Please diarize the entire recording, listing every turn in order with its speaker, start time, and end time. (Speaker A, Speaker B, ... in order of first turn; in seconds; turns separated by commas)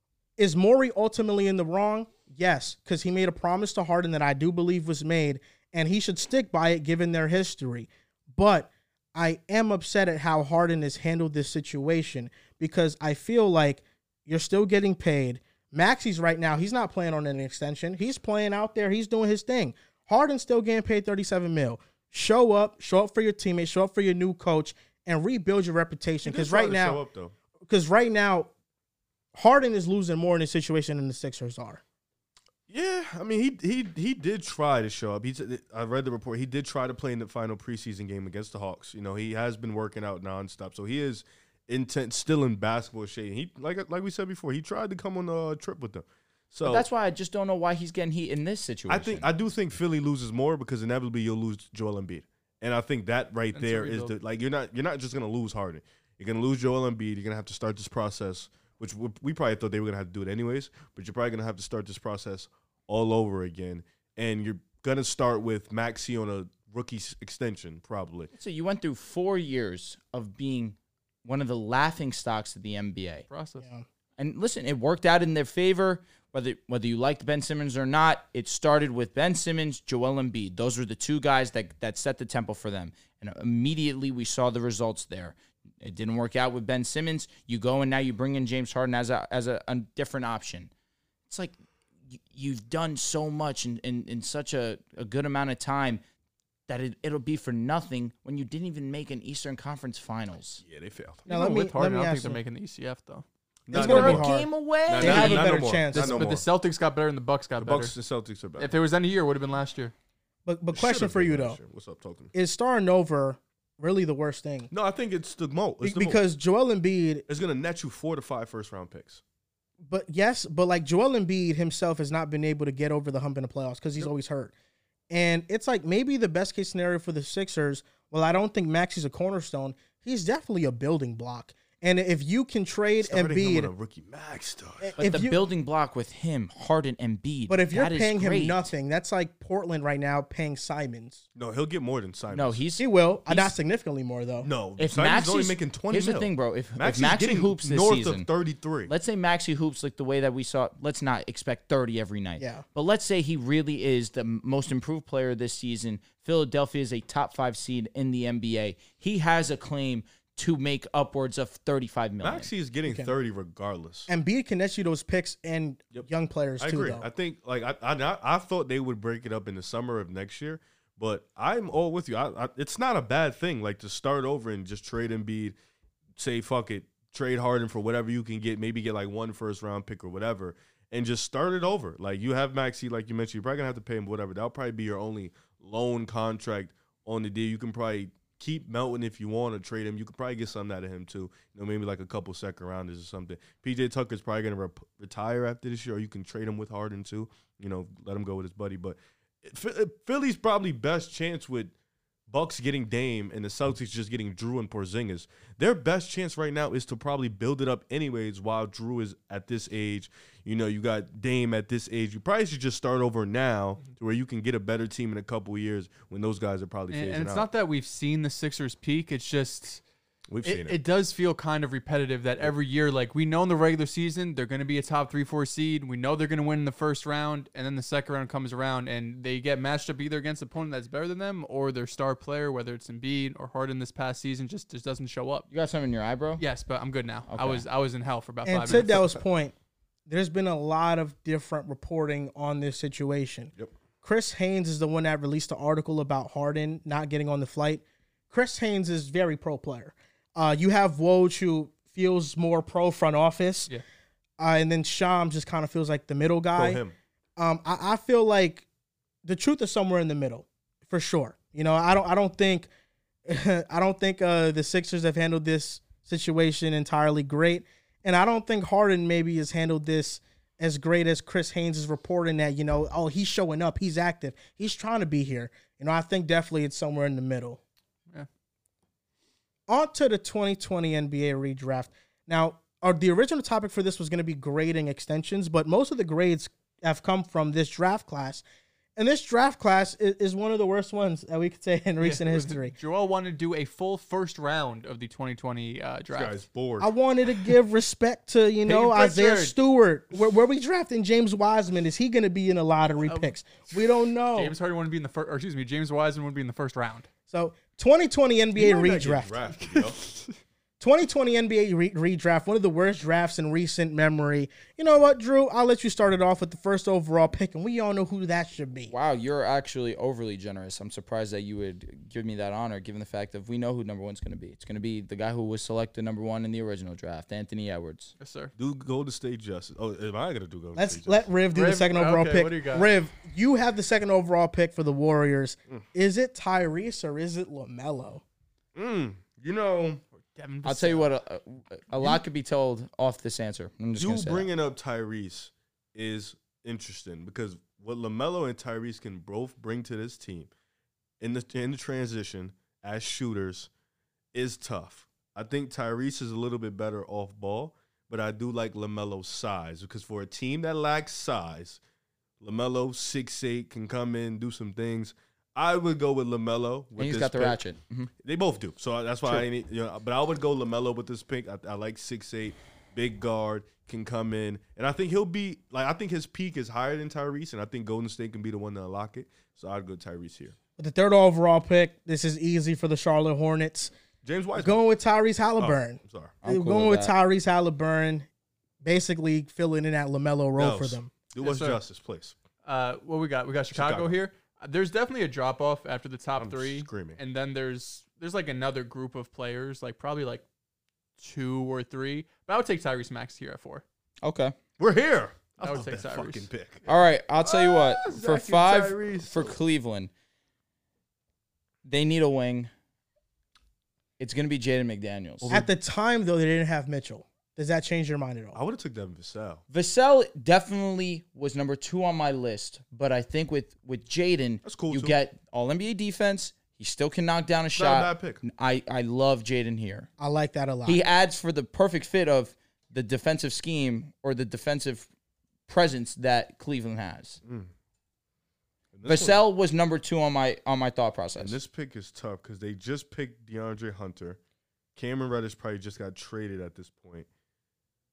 Speaker A: 0.4-27.0, Speaker B: 26.2-27.3, Speaker A: 27.6-28.5, Speaker A: 29.3-31.8, Speaker B: 32.7-46.9, Speaker C: 46.6-49.2, Speaker B: 48.9-68.3, Speaker D: 53.5-54.1, Speaker C: 68.4-73.2, Speaker D: 73.3-73.6, Speaker A: 73.6-73.8, Speaker C: 74.2-90.7, Speaker C: 91.3-91.5, Speaker C: 92.1-96.0, Speaker C: 96.7-100.6, Speaker B: 100.6-101.2, Speaker D: 101.2-103.2, Speaker A: 101.3-102.4, Speaker B: 103.7-104.3, Speaker A: 103.7-106.3, Speaker C: 103.7-105.5, Speaker B: 104.9-106.4, Speaker D: 105.9-107.9, Speaker B: 107.6-108.7, Speaker D: 108.6-109.9, Speaker A: 110.5-111.6, Speaker B: 110.7-112.3, Speaker A: 112.3-114.7, Speaker B: 114.7-116.2, Speaker A: 115.8-117.2, Speaker B: 117.3-119.2, Speaker A: 119.8-124.5, Speaker A: 125.1-133.7, Speaker B: 133.0-134.9, Speaker A: 134.8-135.4, Speaker C: 135.0-138.7, Speaker A: 137.5-141.2, Speaker B: 141.3-142.6, Speaker C: 142.3-143.5, Speaker A: 142.8-144.5, Speaker B: 144.4-148.9, Speaker C: 144.8-148.3, Speaker C: 148.9-162.5, Speaker A: 152.4-152.6, Speaker B: 162.2-164.1, Speaker A: 162.8-163.1, Speaker A: 164.1-167.0, Speaker B: 166.6-175.6, Speaker B: 176.2-201.7, Speaker B: 202.3-217.5, Speaker D: 216.9-219.8, Speaker B: 220.3-220.8, Speaker D: 220.4-235.5, Speaker C: 235.5-236.4, Speaker D: 236.4-239.1, Speaker C: 237.3-237.6, Speaker A: 238.4-239.5, Speaker B: 238.7-239.0, Speaker A: 240.1-253.7, Speaker A: 254.4-256.8, Speaker B: 256.5-256.9, Speaker A: 257.4-258.6, Speaker A: 259.2-262.7, Speaker A: 263.2-277.6, Speaker A: 279.7-288.4, Speaker A: 288.9-292.7, Speaker D: 292.0-296.4, Speaker B: 296.1-296.9, Speaker A: 296.8-304.5, Speaker D: 298.6-299.6, Speaker D: 303.0-307.1, Speaker A: 307.3-309.4, Speaker B: 308.5-310.0, Speaker D: 309.6-310.4, Speaker A: 310.8-318.9, Speaker C: 318.9-328.1, Speaker D: 328.2-328.5, Speaker B: 328.6-331.3, Speaker A: 330.8-338.2, Speaker D: 331.5-332.9, Speaker B: 338.7-340.0, Speaker D: 340.4-341.1, Speaker C: 340.6-344.5, Speaker B: 344.0-350.5, Speaker B: 351.2-353.7, Speaker B: 354.3-361.8, Speaker B: 362.4-367.6, Speaker C: 367.0-368.1, Speaker B: 368.2-380.5, Speaker A: 380.8-383.9, Speaker B: 384.2-384.8, Speaker A: 384.6-388.3, Speaker B: 385.6-386.4, Speaker C: 386.4-387.1, Speaker A: 388.8-391.1, Speaker B: 390.6-392.3, Speaker D: 391.4-391.8, Speaker D: 392.6-400.4, Speaker B: 393.7-394.2, Speaker B: 396.4-397.2, Speaker D: 401.2-403.8, Speaker C: 404.2-404.5, Speaker B: 404.8-406.8, Speaker D: 405.6-406.9, Speaker C: 406.9-410.1, Speaker B: 407.4-409.6, Speaker C: 411.8-412.7, Speaker C: 414.2-415.5, Speaker B: 415.4-415.7, Speaker A: 415.5-418.6, Speaker B: 418.5-419.6, Speaker C: 419.7-430.1, Speaker B: 424.6-425.1, Speaker B: 427.7-428.4, Speaker A: 430.2-431.0, Speaker C: 430.9-435.1, Speaker C: 435.7-437.4, Speaker B: 437.4-437.7, Speaker B: 438.9-439.4, Speaker C: 439.1-441.5, Speaker B: 441.4-444.4, Speaker B: 444.9-447.3